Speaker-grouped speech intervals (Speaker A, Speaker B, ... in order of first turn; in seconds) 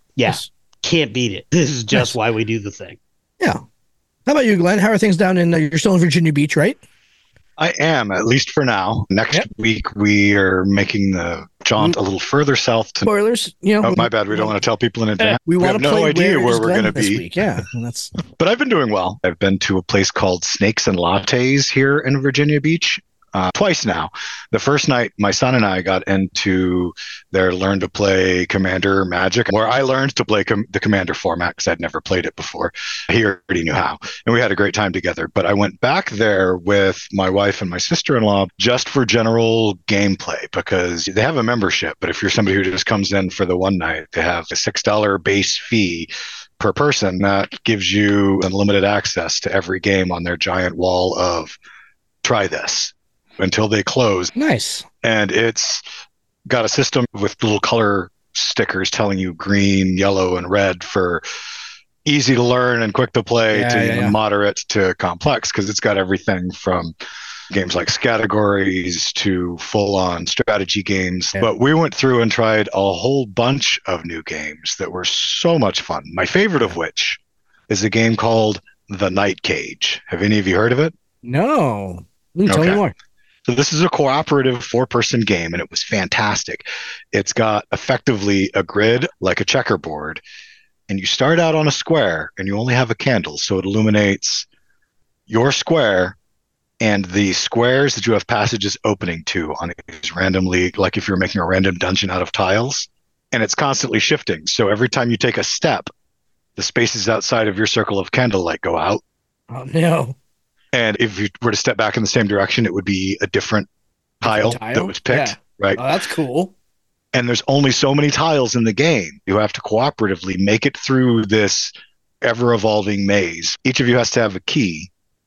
Speaker A: 0.2-3.0
Speaker B: 4.3-6.8, 13.1-14.1, 15.2-18.1, 54.4-54.9, 63.5-64.2, 81.2-82.9, 109.5-110.2, 114.3-116.5
Speaker C: 7.6-13.1, 13.8-17.3, 18.3-51.6, 52.2-54.3, 55.0-55.8, 56.5-61.2, 62.0-66.9, 67.5-80.9, 82.5-82.8, 83.5-90.2, 90.9-94.5, 95.3-96.2, 96.8-105.9, 106.6-109.0, 110.7-113.7, 114.2-115.8, 117.1-124.9